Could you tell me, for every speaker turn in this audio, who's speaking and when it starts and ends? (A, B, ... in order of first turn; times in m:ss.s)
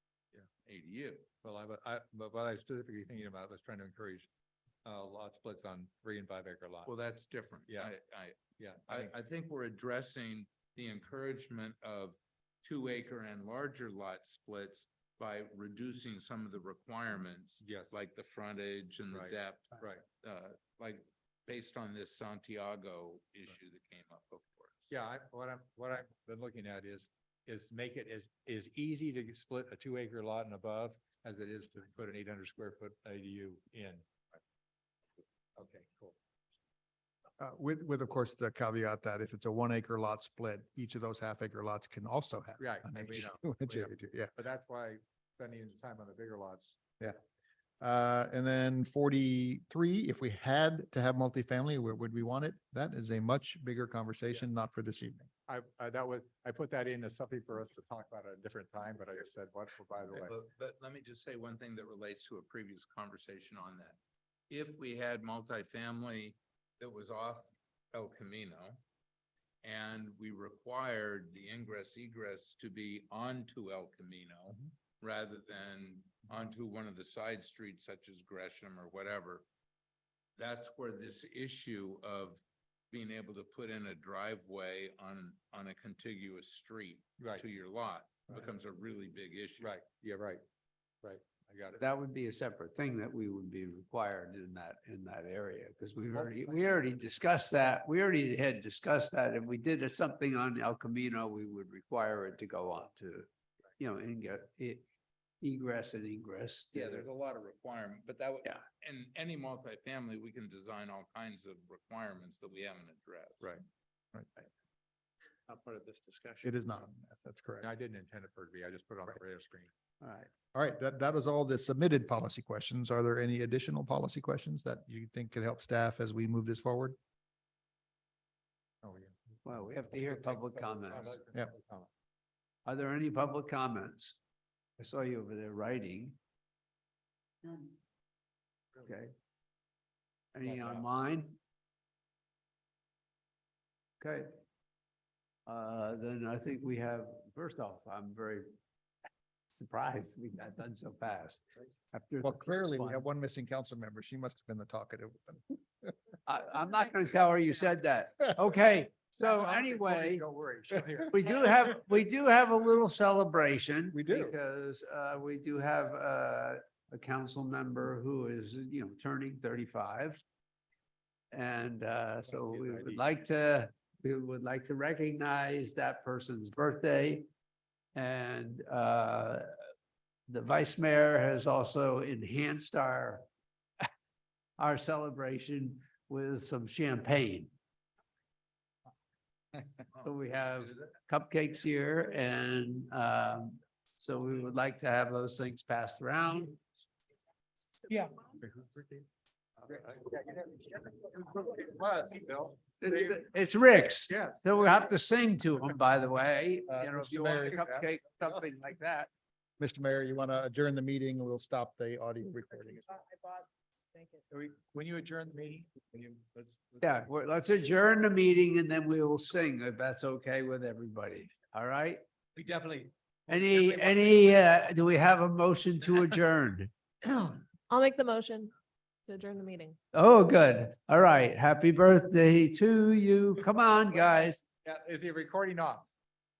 0:00.6-0:01.3 A
0:01.4-0:04.3 B
0:04.8-0:06.9 B
0:06.8-0:24.9 A
0:08.6-0:09.1 B
0:17.6-0:18.0 B
0:19.1-0:20.0 B
0:24.9-0:34.0 B
0:35.6-0:36.2 B
0:37.4-0:44.3 C
0:42.6-0:43.2 B
0:43.0-0:43.9 A
0:44.4-0:46.8 B
0:47.8-0:55.3 C
0:55.5-1:00.3 B
1:00.2-1:04.0 A
1:04.5-1:08.8 A
1:09.6-1:19.4 A
1:20.4-1:29.7 A
1:27.2-1:27.4 B
1:29.6-1:30.4 B
1:31.0-1:31.8 B
1:31.8-1:43.3 D
1:43.8-1:44.9 D
1:45.4-1:47.1 D
1:46.7-1:53.6 A
1:55.5-1:56.0 B
1:56.4-1:57.7 C
1:57.6-1:59.7 B
2:00.0-2:00.3 D
2:00.5-2:07.0 C
2:08.8-2:11.9 B
2:09.4-2:11.2 D
2:12.7-2:14.2 D
2:14.8-2:16.2 D
2:18.9-2:19.1 D
2:20.4-2:21.4 D
2:20.5-2:20.8 B
2:24.0-2:24.3 D
2:25.5-2:28.5 D
2:29.6-2:33.0 D
2:32.2-2:35.9 C
2:36.3-2:40.2 D
2:39.2-2:41.8 B
2:41.1-2:50.2 D
2:43.9-2:44.4 C
2:51.3-2:57.3 D
2:52.4-2:52.9 B
2:58.0-2:59.5 D
3:00.3-3:03.3 D
3:04.6-3:07.5 D
3:10.0-3:16.6 D
3:17.9-3:19.0 B
3:19.7-3:22.9 B
3:22.8-3:29.1 D
3:24.1-3:24.5 B
3:26.7-3:27.6 C
3:27.5-3:27.8 B
3:29.6-3:32.9 C
3:33.1-3:34.2 E
3:34.3-3:37.1 B
3:36.8-3:42.0 D
3:42.4-3:44.0 B
3:43.3-3:46.7 D
3:47.7-3:48.5 E
3:49.1-3:49.8 E
3:49.9-3:54.4 D
3:54.6-3:55.9 B